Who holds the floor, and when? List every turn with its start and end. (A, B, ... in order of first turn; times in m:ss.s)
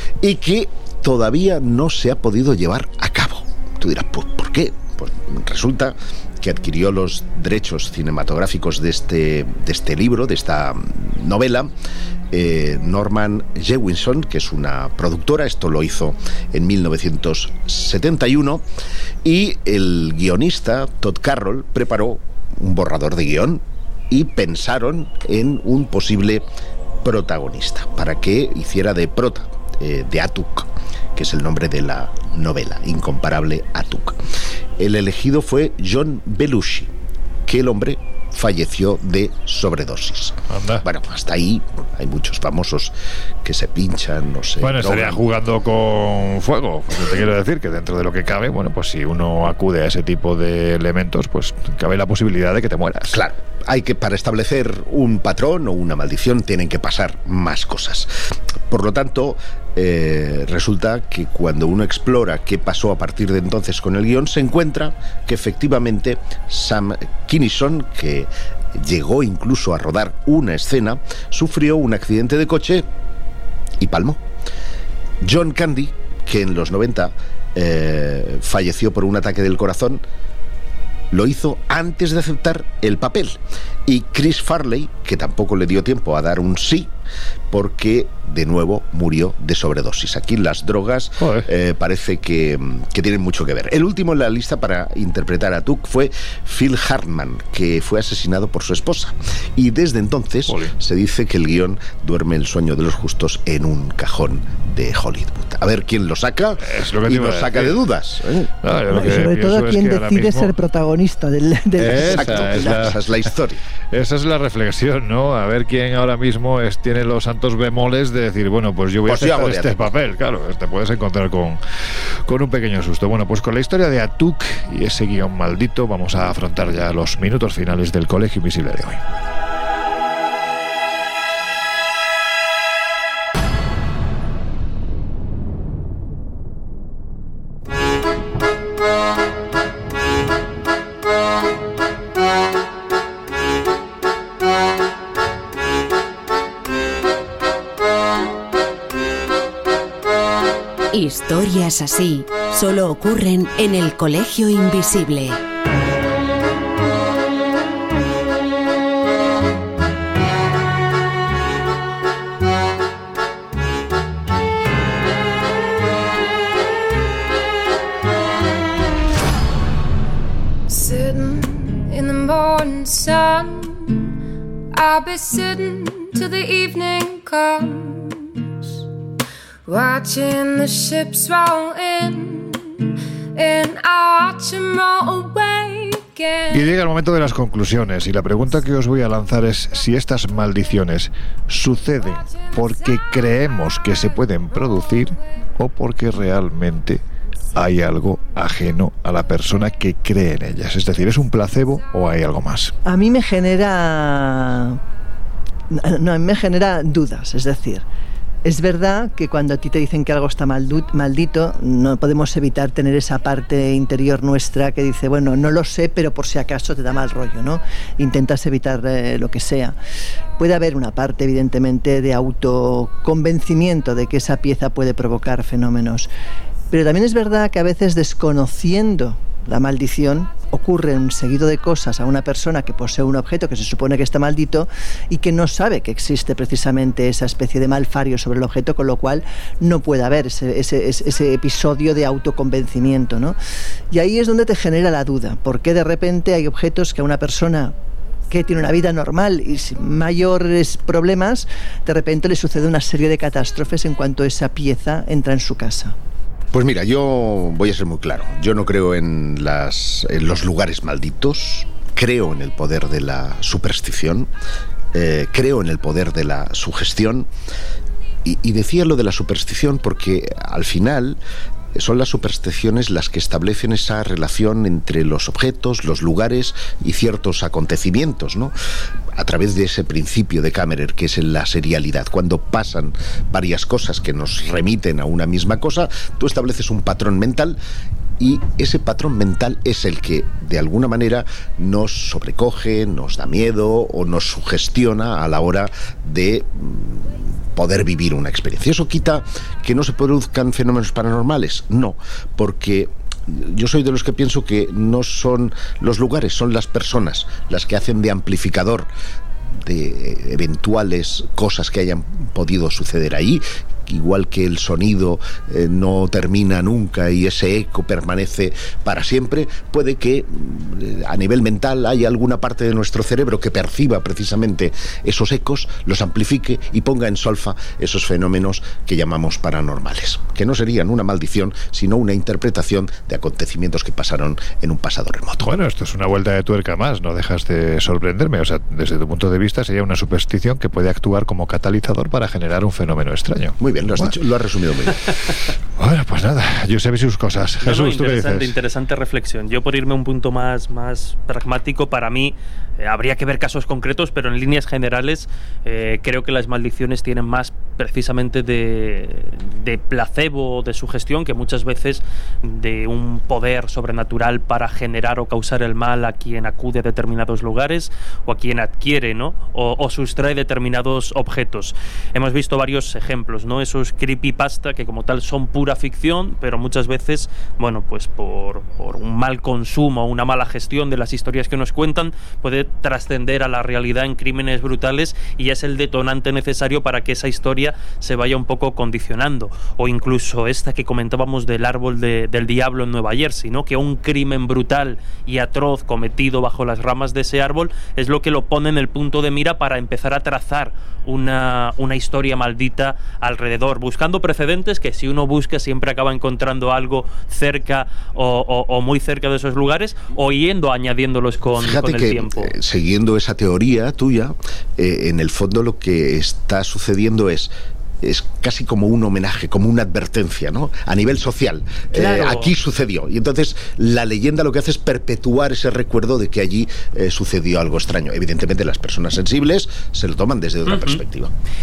0:00.2-0:11.7 A
0:12.3-0:18.6 A
0:19.2-0:26.4 A
0:27.0-0:34.2 A
0:34.8-0:36.9 A
0:37.4-0:45.2 A
0:40.5-0:40.8 B
0:44.6-0:53.2 B
0:53.1-0:58.1 A
0:58.7-1:12.8 A
1:13.8-1:14.2 A
1:15.2-1:20.0 A
1:21.1-1:26.9 A
1:27.5-1:48.5 A
1:31.2-1:31.5 B
1:40.5-1:40.7 B
1:46.6-1:47.8 B
1:48.6-1:50.5 B
1:48.9-1:52.8 C
1:51.8-1:53.1 B
1:51.8-1:53.6 A
1:53.9-2:01.6 B
1:59.0-1:59.9 A
2:02.2-2:09.0 B
2:30.9-2:35.4 D
2:50.7-2:54.1 E
2:54.7-2:58.7 E
2:59.6-3:06.7 E
3:06.5-3:17.0 B
3:12.3-3:13.3 E
3:17.5-3:22.7 B
3:22.8-3:24.8 C
3:25.7-3:27.8 C
3:28.4-3:39.8 C
3:40.4-3:46.1 C
3:46.7-4:03.4 C
4:03.9-4:07.7 C
4:08.3-4:16.0 C
4:16.5-4:24.3 A
4:24.9-4:27.3 A
4:28.2-4:31.2 A
4:31.7-4:38.5 A
4:39.1-4:47.6 A
4:48.2-5:08.9 A
5:09.6-5:35.5 A
5:35.4-5:44.2 B
5:43.6-5:45.1 A
5:45.8-5:48.5 B
5:47.6-6:52.5 F
6:51.6-6:57.5 A
6:58.0-7:11.3 A
7:01.9-7:02.5 F
7:10.6-7:11.0 F